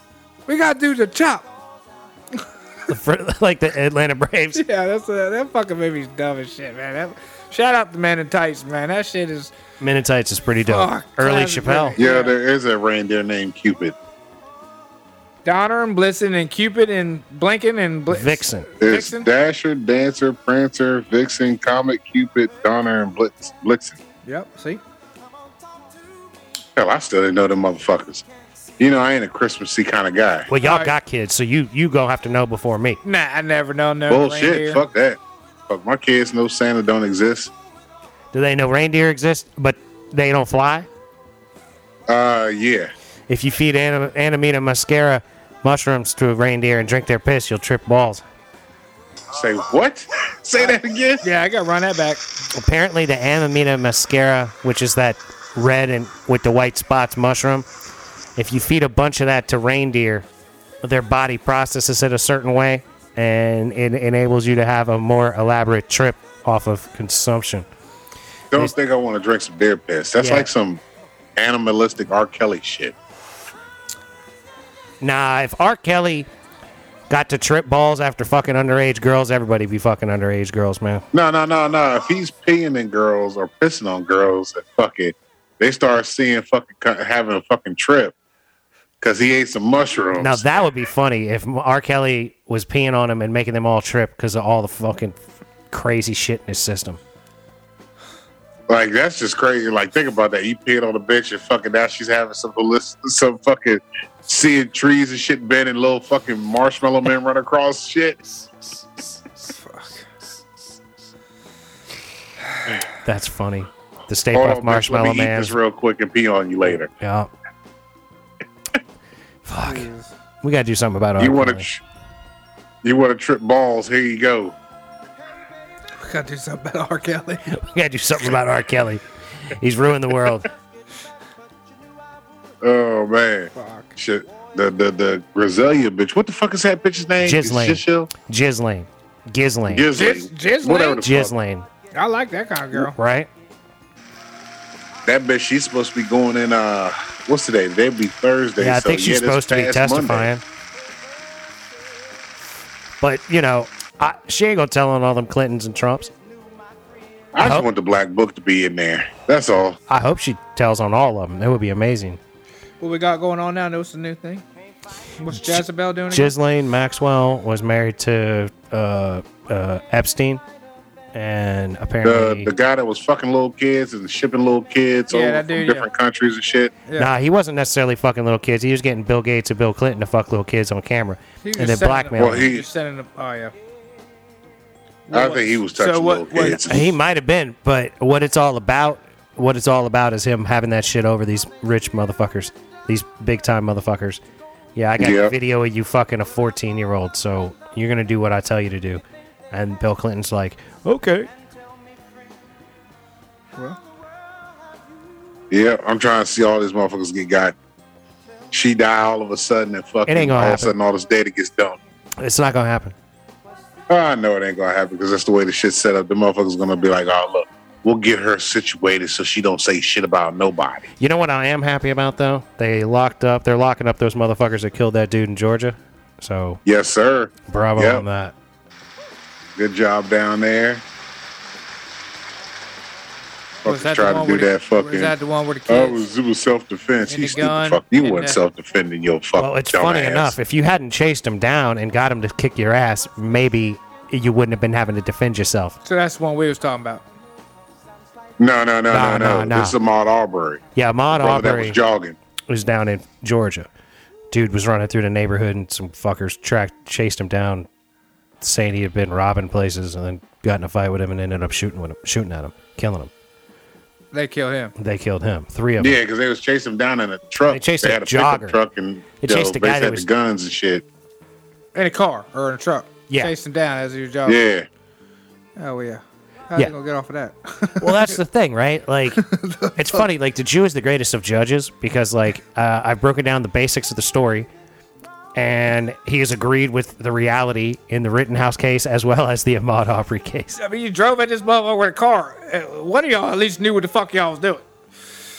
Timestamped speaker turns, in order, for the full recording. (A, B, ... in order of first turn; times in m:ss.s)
0:00.5-0:01.5 A
0:02.9-0:04.6 B
0:04.5-0:09.5 A
0:09.8-0:12.0 B
0:10.6-0:12.3 A
0:12.0-0:13.9 C
0:15.4-0:19.3 A
0:18.1-0:18.7 B
0:18.8-0:24.0 C
0:24.2-0:24.8 A
0:26.8-0:28.2 C
0:28.8-0:30.5 C
0:30.5-0:33.0 B
0:30.6-0:30.9 A
0:33.0-0:34.8 A
0:34.1-0:37.5 C
0:38.3-0:40.9 B
0:42.1-0:42.9 C
0:43.3-0:48.2 B
0:49.3-0:51.2 C
0:51.2-0:52.2 A
0:52.5-0:57.6 B
0:58.4-1:00.2 B
1:00.8-1:07.6 B
1:08.5-1:10.8 C
1:10.2-1:10.5 B
1:11.4-1:13.0 C
1:15.0-1:16.3 B
1:17.1-1:21.0 B
1:21.1-1:28.1 C
1:29.0-1:30.6 C
1:30.2-1:37.0 B
1:38.7-1:48.8 C
1:49.6-1:50.0 A
1:53.0-1:55.5 B
1:54.3-1:56.9 C
1:56.9-1:57.3 B
1:59.4-1:59.9 B
1:59.6-2:00.1 A
2:00.4-2:01.6 B
2:01.2-2:01.8 C
2:02.8-2:04.6 C
2:06.0-2:07.5 A
2:07.5-2:10.5 B
2:12.6-2:18.1 C
2:13.5-2:13.9 A
2:17.2-2:19.9 B
2:19.7-2:21.3 C
2:19.9-2:21.0 A
2:21.0-2:21.7 B
2:21.9-2:23.0 A
2:22.8-2:23.3 B
2:25.0-2:30.3 C
2:28.6-2:30.4 B
2:33.0-2:36.1 B
2:37.3-2:39.8 C
2:37.4-2:37.7 B
2:39.9-2:42.2 B
2:42.8-2:44.4 A
2:45.2-2:46.3 A
2:45.3-2:50.4 B
2:51.1-2:52.5 B
2:52.0-2:56.8 C
2:55.1-2:55.8 A
2:57.0-3:02.5 B
3:01.4-3:03.5 A
3:02.2-3:02.7 C
3:05.1-3:06.9 A
3:05.1-3:06.8 C
3:06.4-3:14.2 B
3:14.7-3:21.3 B
3:15.0-3:15.3 C
3:25.5-3:27.5 C
3:28.5-3:31.8 C
3:30.1-3:30.7 B
3:32.2-3:32.9 B
3:33.9-3:40.8 C
3:41.0-3:46.6 B
3:46.6-3:48.0 C
3:47.5-3:48.3 B
3:49.6-3:50.8 C
3:53.6-3:55.1 C
3:53.6-3:56.0 A
3:55.7-4:00.4 C
3:57.1-3:58.4 A
3:59.4-4:05.8 B
4:05.8-4:07.0 A
4:08.4-4:10.6 C
4:08.9-4:09.8 B
4:10.7-4:11.8 B
4:11.1-4:12.2 C
4:12.5-4:13.7 B
4:14.3-4:17.7 B
4:18.4-4:23.1 B
4:24.1-4:24.7 A
4:24.8-4:26.0 B
4:25.8-4:30.8 C
4:27.5-4:28.6 B
4:29.2-4:30.1 B
4:31.7-4:34.4 A
4:34.2-4:34.7 C
4:35.6-4:38.2 A
4:37.8-4:44.5 B
4:39.2-4:40.0 A
4:45.4-4:50.6 B
4:50.6-4:54.6 A